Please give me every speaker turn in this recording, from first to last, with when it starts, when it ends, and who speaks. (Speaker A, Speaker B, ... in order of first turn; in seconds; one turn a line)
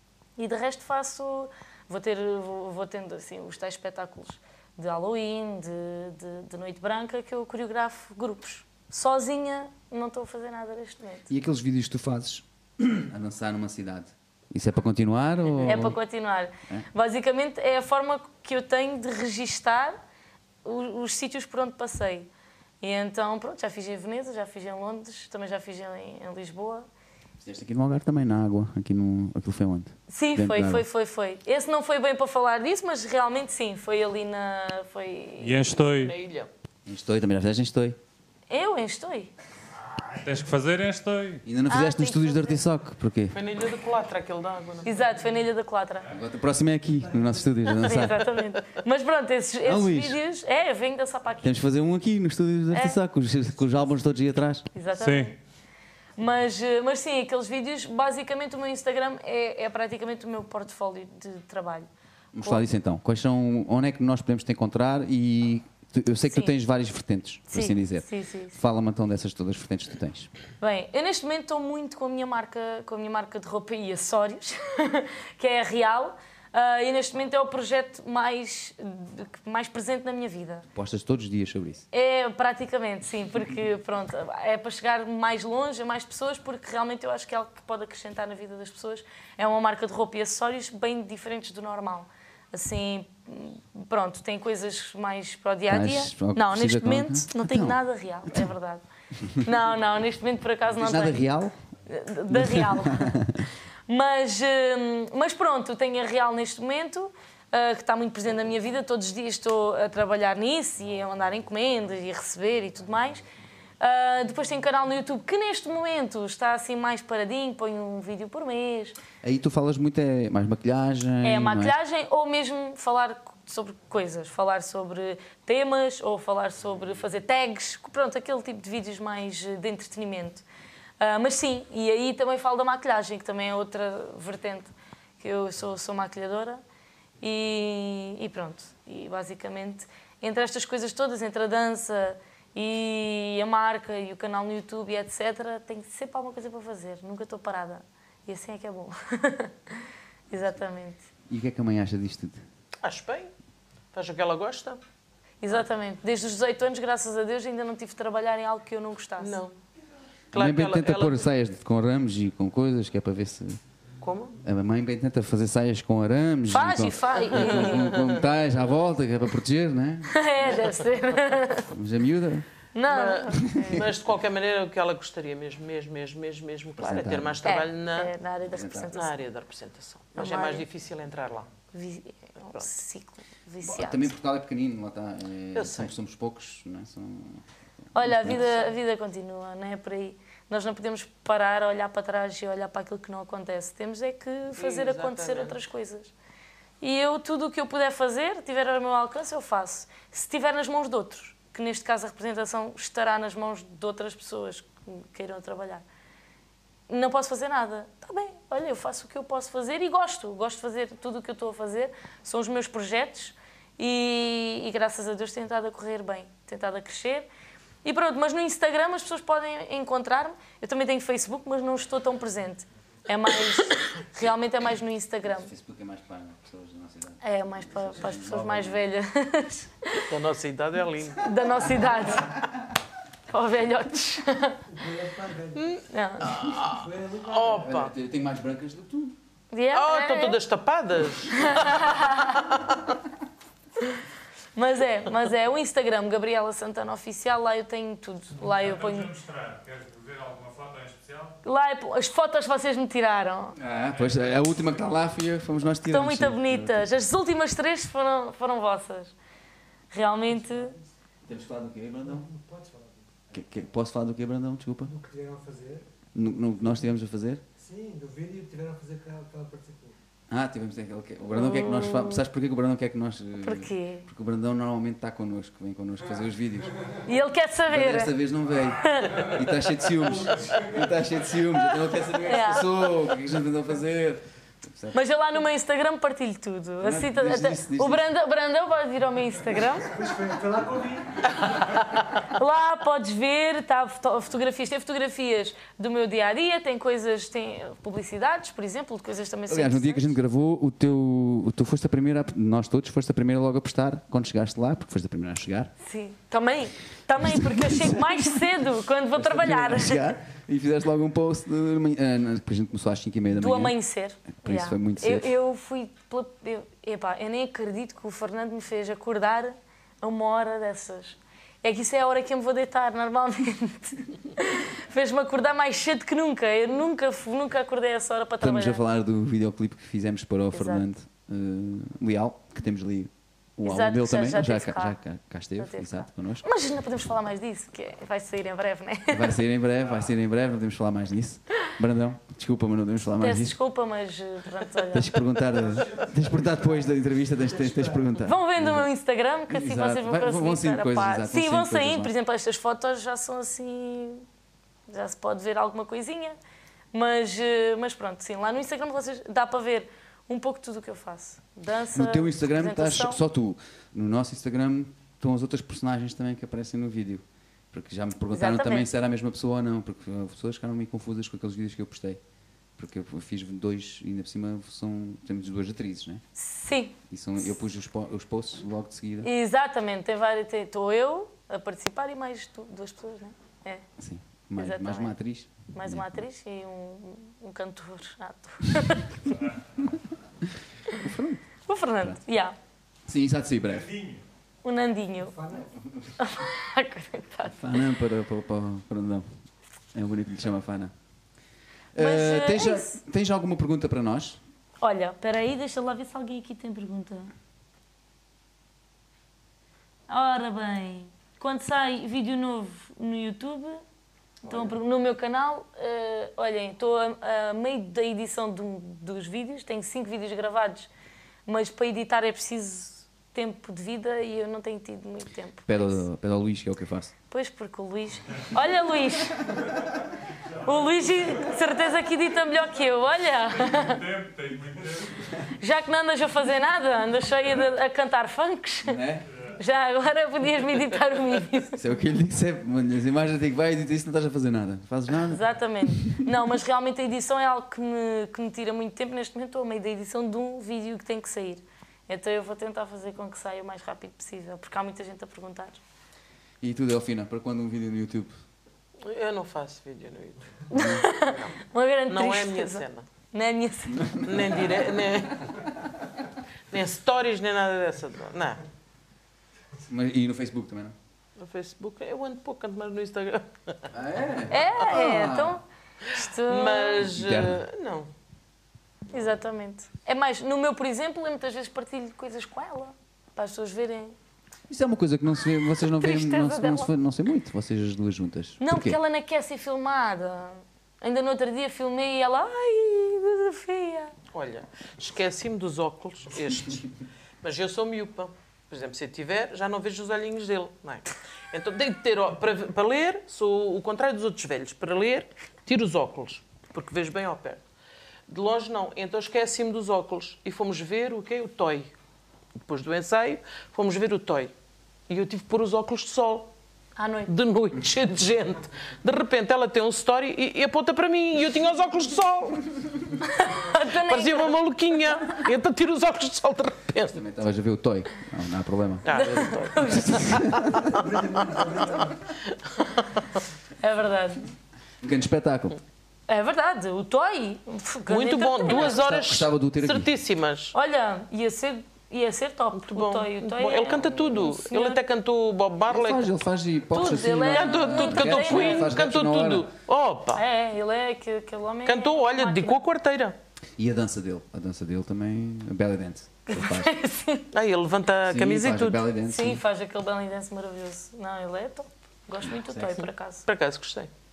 Speaker A: 0.4-11.3
Speaker B: 11.3-16.0
Speaker A: 15.6-20.0
Speaker A: 20.6-22.3
Speaker A: 22.8-26.9
Speaker B: 27.4-30.9
Speaker A: 30.1-35.8
Speaker C: 35.4-36.1
Speaker D: 35.9-36.5
Speaker B: 36.9-38.0
Speaker A: 38.5-39.3
Speaker C: 40.2-41.4
Speaker B: 41.4-43.4
Speaker A: 41.7-42.6
Speaker D: 43.3-45.0
Speaker A: 44.8-46.1
Speaker B: 46.1-48.3
Speaker A: 47.8-51.5
Speaker B: 49.6-50.2
Speaker B: 51.4-54.7
Speaker A: 52.7-53.0
Speaker A: 54.7-55.4
Speaker C: 54.9-55.3
Speaker A: 56.2-61.9
Speaker B: 62.3-70.3
Speaker A: 62.4-62.6
Speaker A: 67.5-68.6
Speaker A: 70.6-80.7
Speaker B: 80.7-81.8
Speaker A: 81.9-98.8
Speaker B: 95.7-98.5
Speaker A: 99.4-101.2
Speaker B: 100.8-101.5
Speaker A: 101.9-103.2
Speaker B: 102.3-103.4
Speaker A: 103.9-113.2
Speaker A: 113.8-119.0
Speaker B: 119.2-121.7
Speaker A: 121.2-130.4
Speaker A: 131.0-136.6
Speaker A: 137.2-151.1
Speaker B: 151.3-152.4
Speaker D: 152.8-153.3
Speaker D: 153.9-154.8
Speaker A: 155.4-159.4
Speaker D: 159.2-159.6
Speaker D: 160.3-161.2
Speaker B: 160.3-163.6
Speaker D: 164.0-164.4
Speaker B: 164.4-170.2
Speaker A: 166.5-167.9
Speaker D: 167.3-168.2
Speaker A: 170.1-171.7
Speaker B: 171.7-172.4
Speaker A: 172.7-173.8
Speaker D: 172.9-178.1
Speaker B: 173.4-173.9
Speaker B: 176.8-177.4
Speaker A: 177.4-179.2
Speaker B: 178.5-178.9
Speaker D: 178.9-181.5
Speaker A: 180.2-180.7
Speaker A: 181.7-184.1
Speaker B: 183.6-187.4
Speaker D: 185.5-185.9
Speaker A: 187.9-196.1
Speaker B: 187.9-188.5
Speaker D: 194.6-195.6
Speaker A: 196.8-205.8
Speaker A: 206.9-217.3
Speaker A: 217.8-225.5
Speaker B: 225.2-228.8
Speaker A: 227.2-230.1
Speaker D: 230.1-231.3
Speaker A: 231.2-232.3
Speaker A: 233.3-234.6
Speaker E: 234.7-235.7
Speaker D: 235.6-237.9
Speaker A: 235.9-236.3
Speaker E: 236.6-237.6
Speaker B: 237.5-239.2
Speaker A: 239.5-240.4
Speaker D: 239.7-241.9
Speaker A: 241.3-242.5
Speaker D: 242.4-242.7
Speaker A: 244.5-249.2
Speaker C: 248.4-251.3
Speaker A: 251.4-253.6
Speaker B: 253.6-256.9
Speaker A: 255.9-259.1
Speaker A: 259.9-260.7
Speaker E: 260.3-260.9
Speaker B: 261.2-262.3
Speaker E: 262.0-263.2
Speaker B: 263.3-264.9
Speaker E: 264.8-265.8
Speaker B: 266.1-267.4
Speaker E: 267.6-270.0
Speaker B: 270.3-276.9
Speaker A: 271.3-272.2
Speaker A: 273.4-274.0
Speaker A: 277.1-278.1
Speaker B: 277.7-285.0
Speaker A: 278.8-279.3
Speaker E: 280.4-280.9
Speaker A: 282.2-282.8
Speaker A: 284.9-289.9
Speaker B: 286.8-288.0
Speaker E: 289.8-291.5
Speaker A: 292.1-300.1
Speaker B: 299.5-305.7
Speaker A: 305.8-310.0
Speaker B: 307.2-308.4
Speaker B: 309.1-313.8
Speaker A: 313.3-328.8
Speaker B: 314.4-315.3
Speaker B: 328.4-336.4
Speaker A: 330.5-330.8
Speaker A: 333.6-335.0
Speaker A: 335.6-339.3
Speaker B: 339.1-343.6
Speaker A: 343.2-345.2
Speaker B: 344.9-348.9
Speaker A: 348.2-354.2
Speaker B: 349.5-352.1
Speaker A: 354.9-356.4
Speaker A: 356.9-363.2
Speaker B: 361.9-372.2
Speaker A: 368.3-368.9
Speaker B: 372.8-376.2
Speaker A: 376.4-377.0
Speaker B: 377.1-379.3
Speaker A: 379.2-383.8
Speaker B: 384.0-386.2
Speaker A: 384.6-385.1
Speaker A: 385.7-389.4
Speaker B: 390.9-391.4
Speaker A: 391.7-392.6
Speaker B: 393.0-393.9
Speaker C: 393.9-394.2
Speaker A: 394.6-395.3
Speaker E: 395.2-395.7
Speaker A: 396.2-397.8
Speaker B: 397.5-399.3
Speaker B: 399.9-400.9
Speaker B: 401.9-404.4
Speaker A: 402.0-403.0
Speaker A: 404.8-407.3
Speaker A: 410.1-413.8
Speaker A: 414.4-420.9
Speaker A: 421.5-426.0
Speaker B: 425.7-427.1
Speaker A: 427.3-429.7
Speaker A: 430.6-434.1
Speaker C: 433.6-435.2
Speaker A: 435.6-439.0
Speaker B: 438.8-439.3
Speaker A: 439.6-441.8
Speaker B: 441.8-446.2
Speaker A: 445.3-455.8
Speaker B: 456.6-458.3
Speaker D: 459.0-460.5
Speaker A: 460.7-464.2
Speaker B: 460.7-461.1
Speaker D: 462.1-463.1
Speaker B: 464.1-464.4
Speaker D: 464.2-465.5
Speaker D: 466.7-468.6
Speaker B: 469.9-470.9
Speaker D: 471.4-473.8
Speaker B: 473.9-475.6
Speaker A: 474.5-477.0
Speaker D: 476.5-478.1
Speaker B: 477.0-477.6
Speaker A: 479.1-484.1
Speaker B: 484.7-489.0
Speaker A: 485.8-486.9
Speaker A: 488.6-494.1
Speaker D: 494.3-496.9
Speaker D: 497.4-507.6
Speaker D: 508.3-511.9
Speaker D: 512.6-514.5
Speaker D: 515.1-516.5
Speaker A: 517.0-517.3
Speaker D: 517.3-522.7
Speaker A: 523.3-524.6
Speaker D: 524.0-527.2
Speaker B: 527.1-530.9
Speaker D: 529.0-530.6
Speaker A: 529.1-530.4
Speaker E: 530.9-532.2
Speaker D: 532.7-533.2
Speaker A: 533.8-534.5
Speaker B: 535.0-535.8
Speaker A: 536.3-538.9
Speaker D: 538.1-540.7
Speaker B: 538.7-540.1
Speaker A: 540.7-545.0
Speaker D: 542.8-546.3
Speaker B: 545.9-549.7
Speaker A: 546.9-548.9
Speaker D: 547.5-550.4
Speaker A: 550.3-552.8
Speaker D: 551.9-553.4
Speaker B: 553.8-556.9
Speaker A: 556.5-557.5
Speaker D: 557.5-559.0
Speaker B: 558.3-559.6
Speaker A: 559.2-563.4
Speaker B: 562.5-563.0
Speaker D: 563.5-564.1